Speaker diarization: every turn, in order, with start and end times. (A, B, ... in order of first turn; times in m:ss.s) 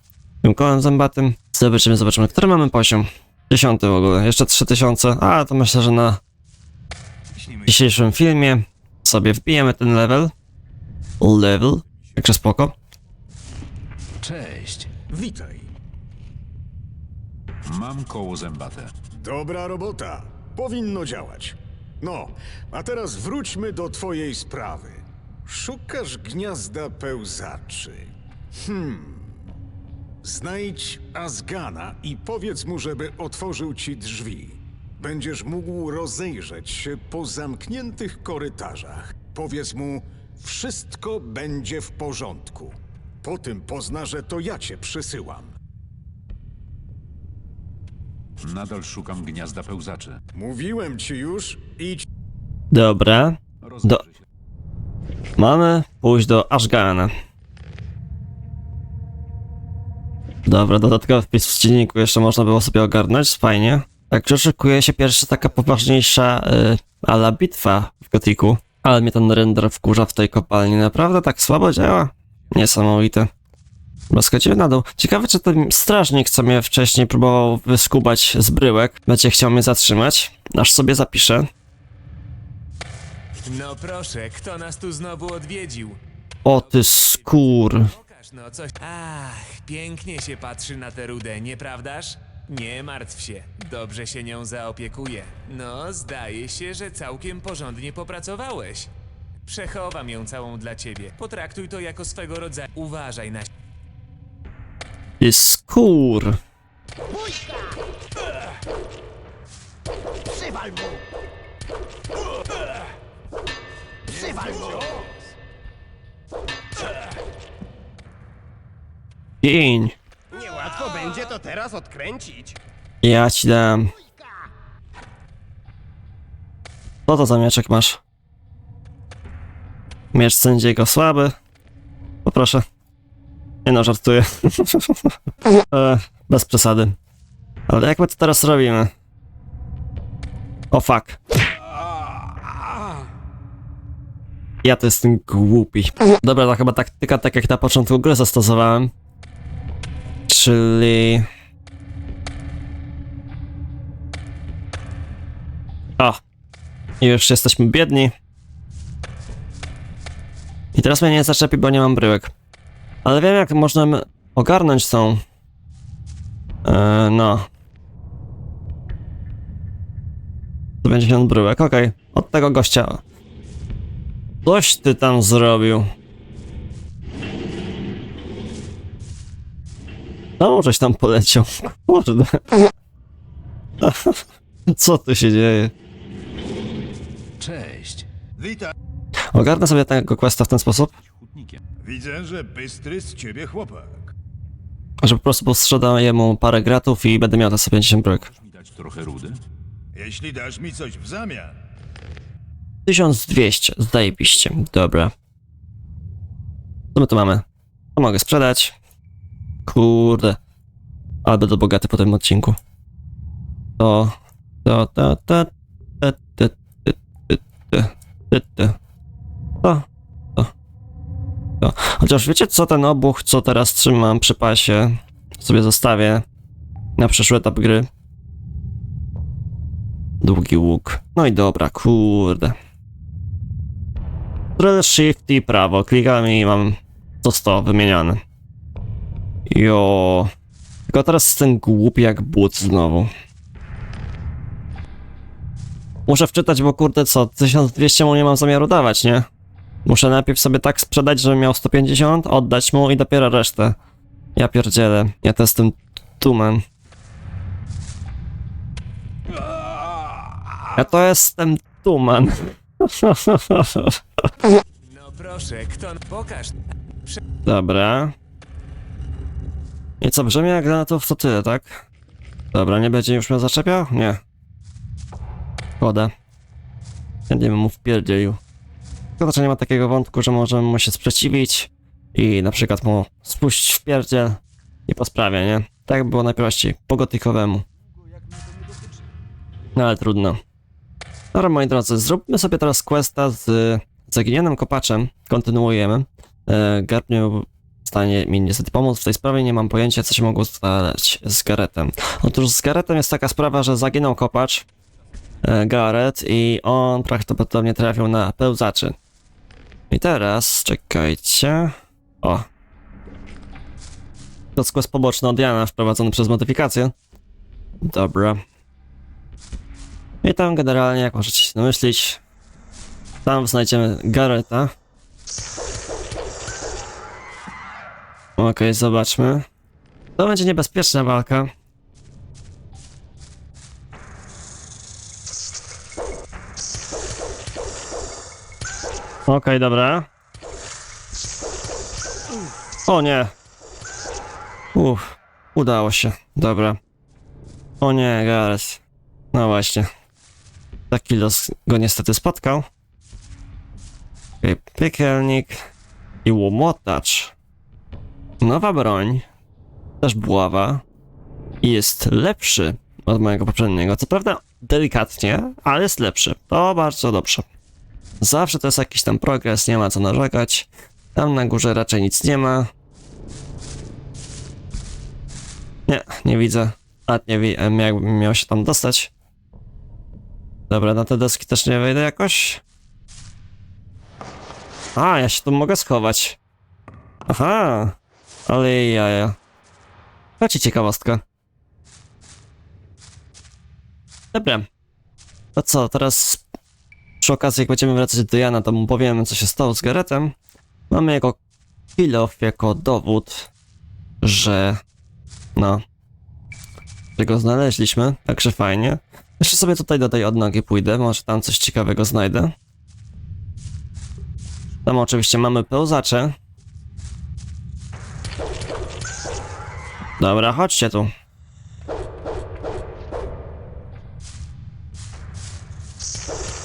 0:00.4-0:06.2 A
0:07.7-0:10.3 A
0:11.2-0:12.8 A
0:14.2-0:14.9 B
0:15.1-0:15.7 C
0:17.6-0:18.9 B
0:19.2-0:29.4 C
0:30.2-0:45.5 C
0:48.4-0:50.2 B
0:50.4-0:52.0 C
0:52.7-0:54.0 A
0:53.6-0:54.2 B
0:55.4-0:57.1 A
1:00.5-1:13.3 A
1:14.1-1:21.5 A
1:23.4-1:38.9 D
1:26.4-1:27.9 A
1:39.4-1:43.5 D
1:45.2-1:46.4 A
1:54.2-1:54.8 E
1:59.4-2:00.0 A
2:00.4-2:02.5 E
2:03.0-2:03.9 A
2:07.1-2:08.0 A
2:10.1-2:11.4 A
2:12.2-2:12.6 A
2:13.6-2:17.0 A
2:17.7-2:18.9 A
2:20.7-2:21.2 A
2:24.6-2:28.9 A
2:30.3-2:31.3 A
2:37.0-2:38.1 A
2:40.7-2:42.3 A
2:43.0-2:45.2 A
2:46.6-2:47.5 A
2:50.8-2:53.0 A
2:54.4-2:55.9 A
3:00.4-3:02.7 A
3:03.8-3:05.7 A
3:07.4-3:08.1 B
3:08.4-3:08.7 F
3:09.3-3:10.9 A
3:11.0-3:11.6 B
3:11.8-3:14.1 F
3:15.0-3:18.3 A
3:18.0-3:19.4 B
3:20.0-3:21.6 F
3:22.9-3:25.1 A
3:26.9-3:27.4 A
3:28.0-3:28.8 A
3:29.7-3:30.4 A
3:31.2-3:32.6 A
3:33.8-3:38.8 A
3:39.6-3:40.5 A
3:41.6-3:46.2 A
3:47.0-3:47.9 A
3:50.2-3:52.6 A
3:54.6-3:58.2 A
3:59.5-4:00.3 A
4:00.9-4:03.1 A
4:06.1-4:09.3 A
4:09.8-4:13.8 A
4:14.4-4:16.6 A
4:20.7-4:24.3 A
4:24.8-4:27.2 D
4:27.4-4:28.2 A
4:30.0-4:31.8 A
4:32.5-4:34.2 A
4:35.8-4:36.1 A
4:37.3-4:38.4 A
4:39.2-4:47.6 A
4:49.8-4:50.4 A
4:51.3-5:04.7 A
5:05.4-5:09.0 A
5:09.9-5:12.5 A
5:14.6-5:16.9 A
5:17.8-5:18.4 A
5:20.2-5:22.2 A
5:23.2-5:24.7 A
5:28.4-5:29.5 A
5:30.2-5:31.5 A
5:39.3-5:40.1 A
5:42.9-5:43.3 A
5:44.7-5:46.8 A
5:47.8-5:48.8 A
5:49.3-5:49.9 A
5:50.9-5:52.7 A
5:54.4-5:55.6 A
5:56.2-5:57.3 A
5:58.4-5:59.3 A
6:00.0-6:00.8 A
6:01.6-6:07.4 A
6:08.2-6:12.7 A
6:15.9-6:19.1 A
6:20.7-6:22.6 A
6:25.0-6:26.4 A
6:27.3-6:28.0 A
6:28.5-6:29.4 A
6:30.4-6:31.2 A
6:34.3-6:34.7 A
6:35.6-6:36.4 A
6:37.2-6:40.4 A
6:40.9-6:41.4 A
6:42.0-6:43.5 A
6:44.2-6:44.8 A
6:45.6-6:45.8 A
6:47.2-6:52.5 A
6:54.8-6:56.4 A
7:00.2-7:01.1 A